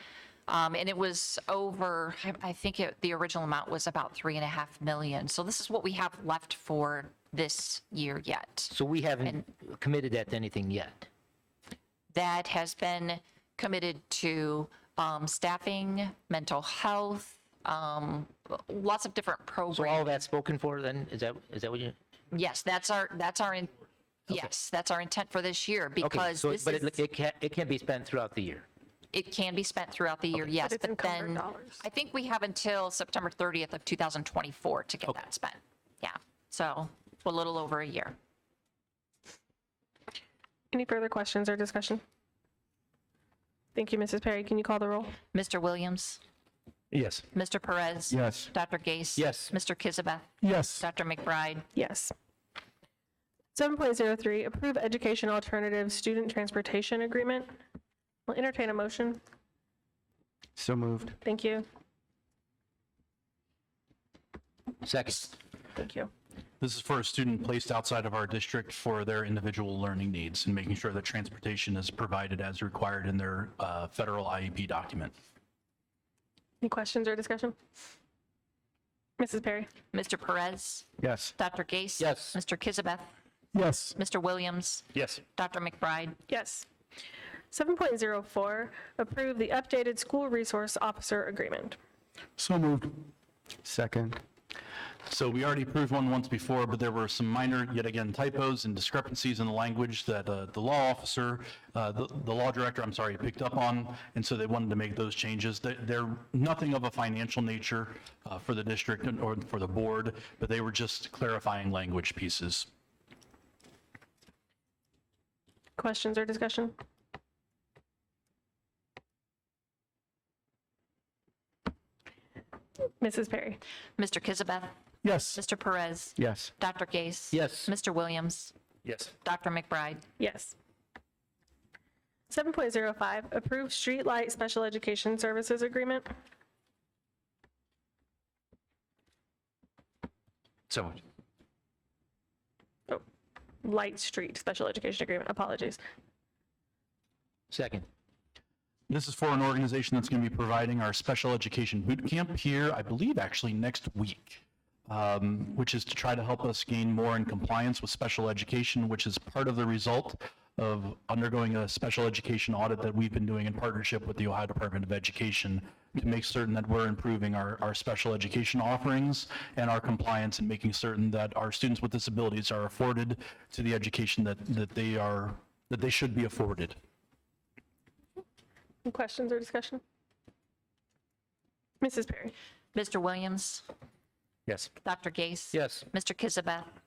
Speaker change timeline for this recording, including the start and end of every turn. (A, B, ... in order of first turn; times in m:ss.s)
0:00.5-0:08.7 A
0:08.7-0:11.1 B
0:12.1-0:20.2 A
0:19.7-0:22.0 B
0:22.3-0:23.7 A
0:24.3-0:27.0 A
0:26.0-0:28.7 B
0:29.1-0:38.2 A
0:30.6-0:31.8 C
0:40.7-0:42.0 C
0:43.8-0:45.1 C
0:45.3-0:46.2 A
0:46.9-0:47.2 B
0:47.3-0:51.7 A
0:48.1-0:48.5 D
0:49.2-0:49.5 B
0:50.4-0:50.8 E
0:51.8-0:52.1 C
0:53.6-0:57.6 C
0:58.3-0:59.2 C
1:00.6-1:01.2 D
1:01.2-1:01.7 C
1:04.8-1:05.4 B
1:05.8-1:06.1 C
1:06.6-1:15.2 E
1:16.6-1:17.6 C
1:19.2-1:19.7 C
1:19.9-1:23.1 A
1:21.0-1:21.3 D
1:22.0-1:22.4 B
1:23.5-1:24.0 E
1:24.0-1:26.2 A
1:26.3-1:26.7 C
1:27.5-1:31.8 C
1:32.4-1:33.0 E
1:33.6-1:34.2 D
1:35.1-1:52.7 E
1:55.8-1:56.8 C
2:03.0-2:03.6 C
2:04.0-2:08.5 A
2:05.0-2:05.4 E
2:06.2-2:06.5 D
2:07.3-2:07.7 B
2:08.9-2:09.1 E
2:09.2-2:10.0 A
2:10.2-2:10.6 C
2:12.3-2:16.1 C
2:20.7-2:21.0 E
2:23.6-2:25.8 C
2:27.5-2:27.9 B
2:28.9-2:56.8 E
2:58.8-2:59.8 C
3:01.8-3:02.3 C
3:02.8-3:03.6 A
3:04.8-3:06.7 A
3:05.5-3:05.9 B